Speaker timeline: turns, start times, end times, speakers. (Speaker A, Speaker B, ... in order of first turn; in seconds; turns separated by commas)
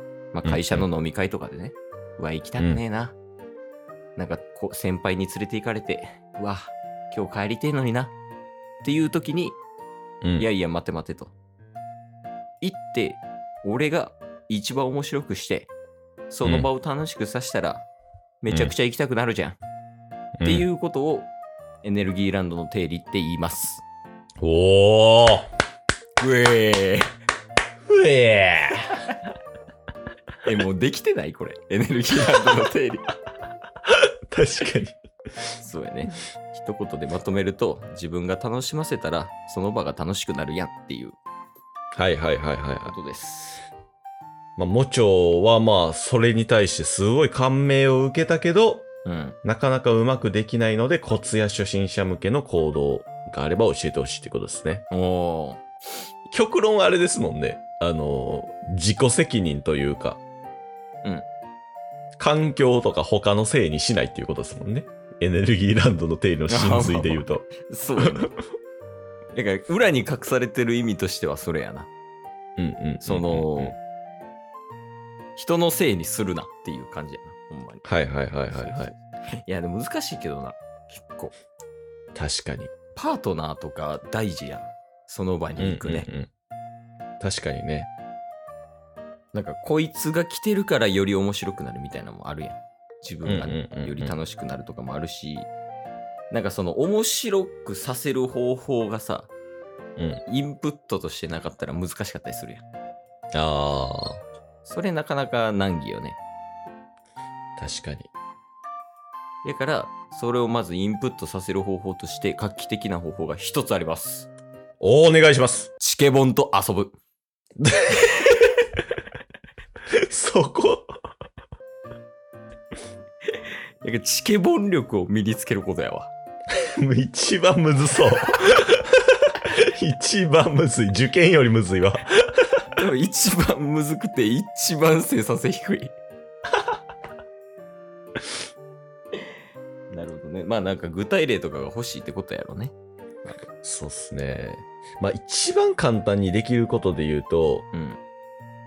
Speaker A: 0.3-3.2, Speaker B: 0.4-0.8, Speaker A: 4.2-8.1, Speaker A: 8.8-9.6, Speaker A: 10.4-11.3, Speaker A: 12.6-15.7, Speaker A: 16.3-17.9, Speaker B: 16.4-16.7, Speaker A: 18.4-19.6, Speaker B: 18.5-18.7, Speaker B: 20.4-20.7, Speaker A: 20.4-21.3, Speaker A: 21.8-23.8, Speaker B: 24.4-25.5, Speaker A: 26.2-27.1, Speaker B: 27.9-29.0, Speaker A: 30.4-33.1, Speaker B: 33.9-35.0, Speaker A: 35.6-41.2, Speaker B: 41.9-42.9, Speaker A: 42.9-43.6, Speaker B: 44.6-48.9, Speaker A: 49.0-49.4, Speaker B: 49.4-54.9, Speaker A: 54.9-55.6, Speaker B: 56.3-60.2, Speaker B: 62.2-67.5, Speaker A: 66.5-68.4, Speaker A: 69.3-71.9, Speaker B: 72.6-73.8, Speaker A: 73.0-73.8, Speaker A: 75.4-77.9, Speaker B: 77.9-78.9, Speaker A: 78.5-81.3, Speaker B: 82.2-82.7, Speaker A: 83.0-86.1, Speaker B: 85.6-86.3, Speaker B: 87.2-87.9, Speaker A: 89.3-95.5, Speaker B: 93.2-94.1, Speaker A: 96.3-99.3, Speaker B: 100.0-100.2, Speaker A: 100.3-102.6, Speaker B: 103.3-104.2, Speaker A: 104.6-106.2, Speaker B: 107.6-108.1, Speaker A: 109.4-114.3, Speaker B: 114.8-115.7, Speaker A: 115.8-116.9, Speaker B: 117.6-118.1, Speaker B: 119.9-120.9, Speaker A: 123.8-126.1, Speaker B: 126.6-132.3, Speaker A: 132.7-136.0, Speaker A: 139.9-142.7, Speaker B: 143.6-147.7, Speaker A: 147.7-148.0